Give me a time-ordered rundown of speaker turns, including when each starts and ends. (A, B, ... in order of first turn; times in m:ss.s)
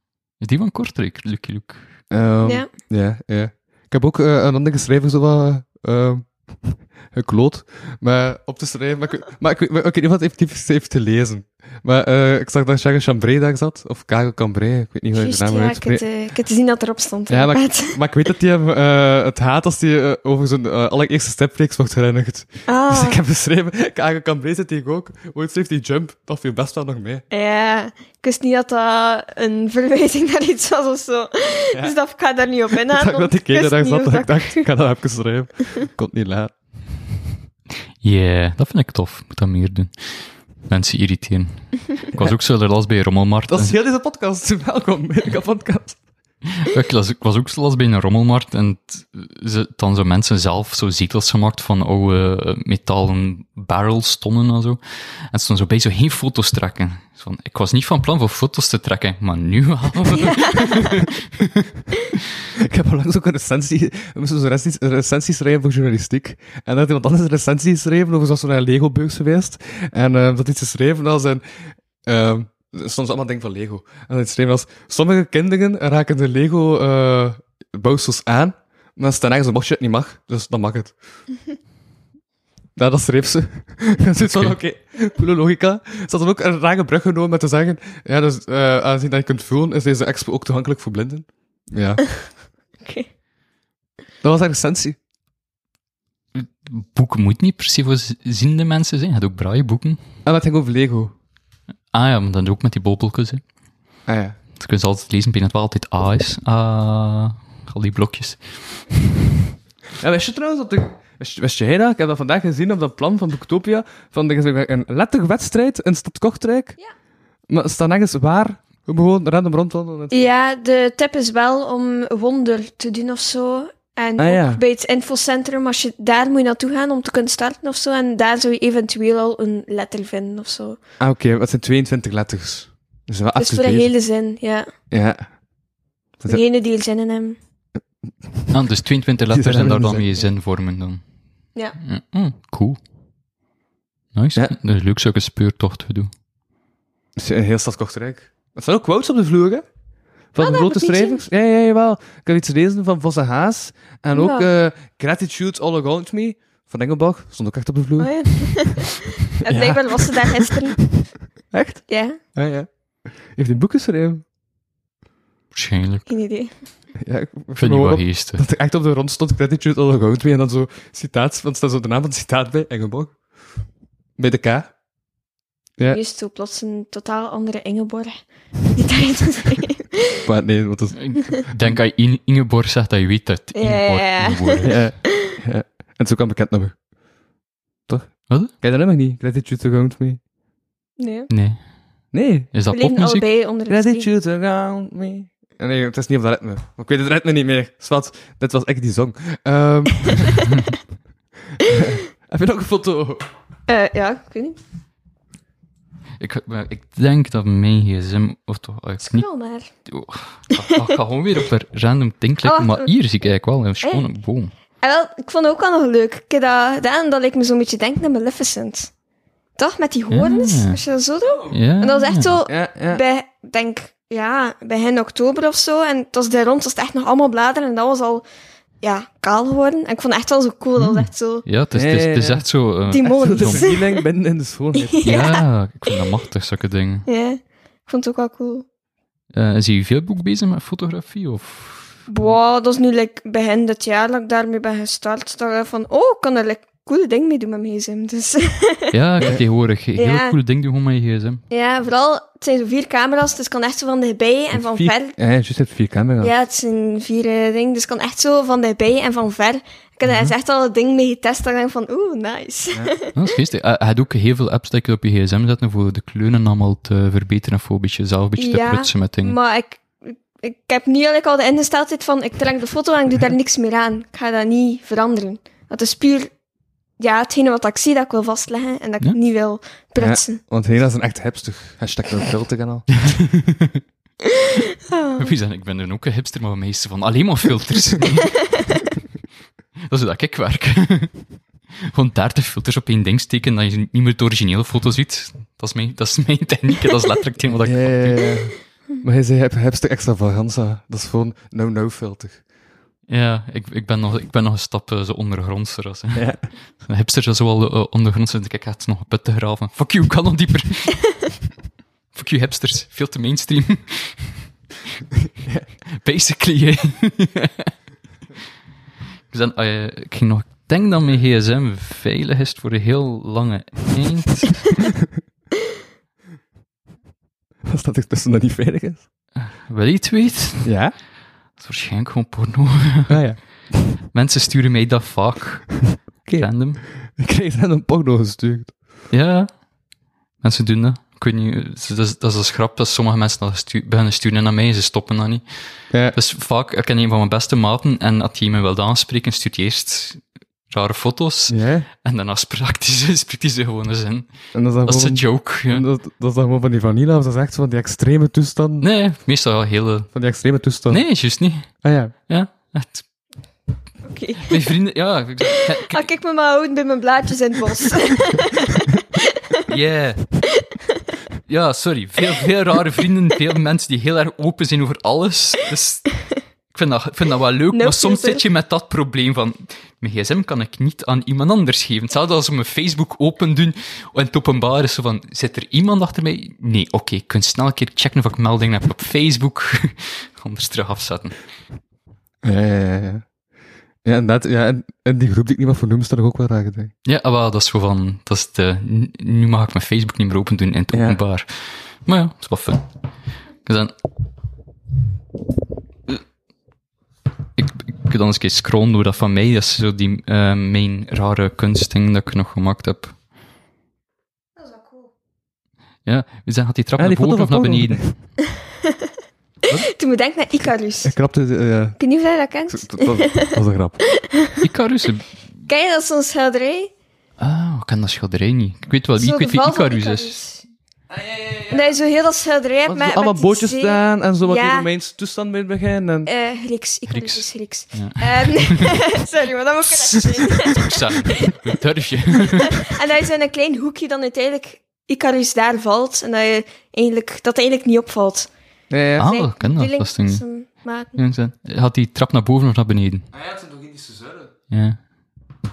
0:00.4-0:02.0 A
0:02.1-0:16.0 B
0:15.1-0:18.0 C
0:17.3-0:27.2 B
0:22.7-0:23.2 C
0:27.3-0:34.7 C
0:32.9-0:36.5 B
0:38.0-0:43.8 A
0:43.5-0:46.0 B
0:46.6-0:54.8 A
0:55.3-1:02.2 A
1:00.2-1:00.8 C
1:02.6-1:21.0 B
1:22.8-1:32.2 B
1:24.2-1:24.6 A
1:32.8-1:33.1 C
1:34.2-1:35.0 B
1:36.3-1:40.0 A
1:40.3-1:41.1 B
1:41.9-1:43.4 A
1:44.1-1:44.4 B
1:44.6-1:48.4 A
1:50.0-1:56.8 B
1:57.5-2:00.3 B
2:00.1-2:10.8 C
2:04.2-2:04.6 B
2:11.0-2:13.9 B
2:13.4-2:14.7 C
2:14.9-2:15.3 B
2:16.3-2:17.4 C
2:18.0-2:18.5 B
2:18.5-2:21.0 A
2:19.3-2:20.2 B
2:21.8-2:22.8 A
2:24.1-2:26.1 A
2:27.2-2:29.7 B
2:30.3-2:38.7 B
2:30.4-2:31.2 C
2:34.2-2:34.5 C
2:38.0-2:40.8 C
2:39.4-2:40.6 B
2:41.5-2:42.7 B
2:41.9-2:42.2 C
2:43.3-2:44.2 B
2:45.5-2:46.1 A
2:46.1-2:46.5 C
2:47.0-2:53.2 B
2:47.6-2:48.4 A
2:54.2-2:54.7 B
2:55.9-3:00.2 C
3:00.3-3:01.7 B
3:01.0-3:04.9 A
3:03.6-3:05.3 C
3:04.6-3:06.8 B
3:07.9-3:10.2 B
3:11.0-3:11.3 C
3:11.3-3:11.6 A
3:12.1-3:12.5 B
3:12.5-3:13.3 A
3:12.7-3:14.1 C
3:13.7-3:20.5 B
3:21.6-3:23.3 B
3:23.7-3:24.6 C
3:26.2-3:34.5 A
3:29.0-3:29.7 C
3:32.4-3:32.9 C
3:34.8-3:38.9 C
3:39.6-3:48.2 C
3:40.1-3:40.8 A
3:41.5-3:42.4 A
3:42.5-3:43.0 B
3:48.8-3:51.4 C
3:50.8-3:53.7 A
3:51.7-3:55.1 B
3:52.9-3:54.0 C
3:54.8-3:55.4 C
3:55.0-3:57.1 A
3:57.1-3:58.7 C
3:59.3-4:02.3 A
4:02.1-4:08.9 C
4:08.9-4:11.4 A
4:10.0-4:10.4 C
4:11.5-4:15.2 C
4:14.5-4:16.3 B
4:16.2-4:23.1 C
4:23.1-4:29.4 A
4:28.4-4:36.3 C
4:37.0-4:40.4 C
4:40.0-4:43.0 B
4:43.1-4:43.8 A
4:44.9-4:45.3 C
4:45.2-4:48.6 A
4:49.9-4:51.3 A
4:51.9-4:58.4 A
4:57.6-5:02.4 B
5:03.1-5:11.4 A
5:06.2-5:06.5 B
5:12.1-5:14.5 A
5:15.4-5:15.7 B
5:16.0-5:17.7 A
5:19.3-5:24.8 A
5:27.6-5:29.1 B
5:29.4-5:30.8 A
5:30.6-5:31.0 B
5:31.6-5:36.8 A
5:33.1-5:33.9 B
5:36.3-5:38.8 B
5:39.1-5:39.5 A
5:40.4-5:45.4 A
5:45.9-5:46.2 B
5:46.1-5:55.8 A
5:51.5-5:51.9 B
5:54.5-5:58.9 B
5:58.8-6:00.1 A
6:00.1-6:01.1 B
6:00.9-6:03.1 A
6:01.8-6:02.1 B
6:04.0-6:04.7 C
6:04.5-6:06.1 A
6:05.5-6:08.9 C
6:09.7-6:10.5 A
6:11.5-6:31.4 A
6:17.7-6:18.4 C
6:32.4-6:33.2 B
6:34.0-6:36.9 B
6:37.0-6:42.9 A
6:40.9-6:41.2 B
6:43.6-6:43.9 A
6:47.6-6:53.2 A
6:54.6-6:55.1 C
6:56.0-6:58.2 A
6:57.0-6:58.1 B
6:59.9-7:01.1 C
7:01.0-7:02.0 B
7:02.0-7:03.5 C
7:02.7-7:04.0 B
7:04.1-7:04.6 C
7:04.6-7:05.4 A
7:05.7-7:06.9 C
7:07.4-7:10.4 A
7:09.2-7:10.6 C
7:11.3-7:11.7 B
7:11.7-7:14.9 C
7:12.9-7:16.3 B
7:16.3-7:21.5 C
7:17.1-7:19.0 A
7:19.9-7:22.9 A
7:22.8-7:28.5 C
7:28.9-7:29.3 B
7:29.2-7:31.2 C
7:29.2-7:33.3 A
7:33.3-7:34.5 B
7:34.7-7:35.0 A